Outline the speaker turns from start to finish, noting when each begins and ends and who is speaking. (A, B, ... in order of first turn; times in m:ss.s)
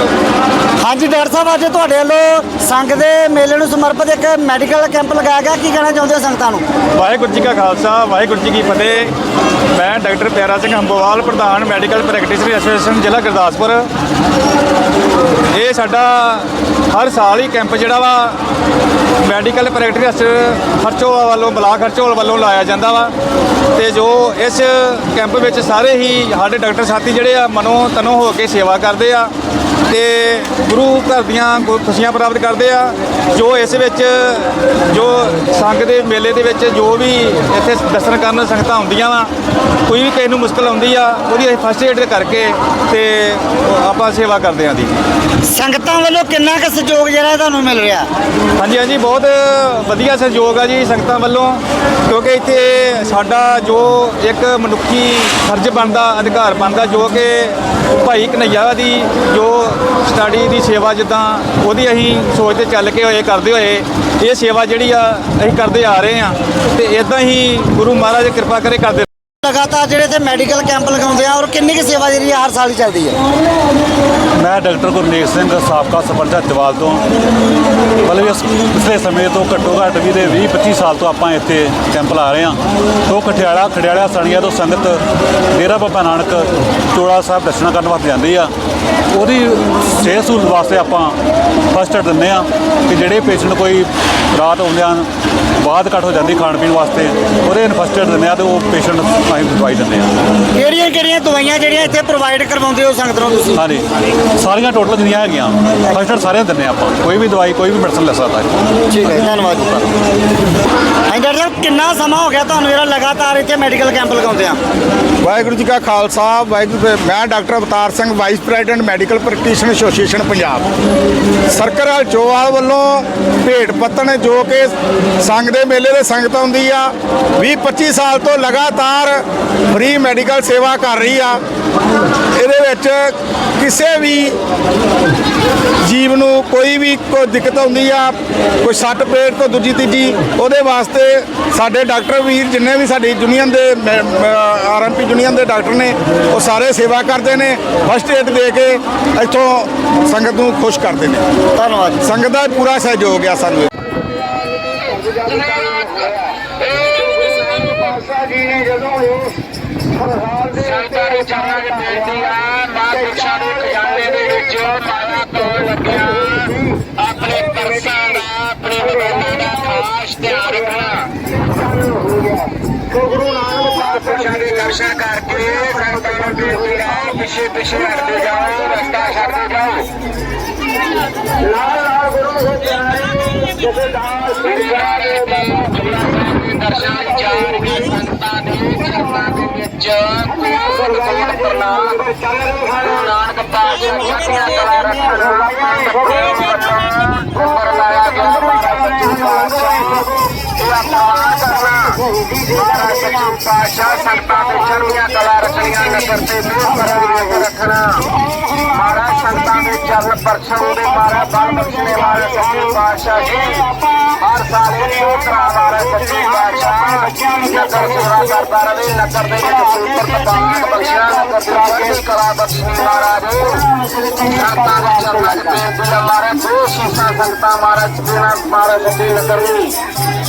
0:00.8-0:06.6 A
0:07.0-0:09.1 B
0:09.7-0:13.9 B
0:15.5-0:18.4 B
0:19.2-0:23.1 B
0:23.8-0:29.3 B
0:29.9-0:39.3 B
0:39.9-0:44.9 B
0:45.5-0:48.1 A
0:48.6-1:09.1 B
1:09.4-1:13.2 A
1:14.4-1:17.0 C
1:18.0-1:28.5 C
1:29.1-1:31.2 C
1:31.7-1:35.1 C
1:35.6-1:40.2 C
1:40.6-1:43.6 A
1:43.6-1:48.5 C
1:48.9-1:49.9 A
1:51.1-1:54.6 A
1:55.2-2:00.7 D
2:01.5-2:11.4 D
2:12.4-2:14.4 D
2:15.9-2:31.2 D
2:31.6-2:32.0 A
2:32.0-2:33.7 D
2:34.6-2:38.1 E
2:38.5-2:39.0 D
2:40.3-2:51.1 E
2:53.0-2:59.9 E
3:02.6-3:03.7 E
3:03.8-3:04.3 D
3:04.3-3:49.8 E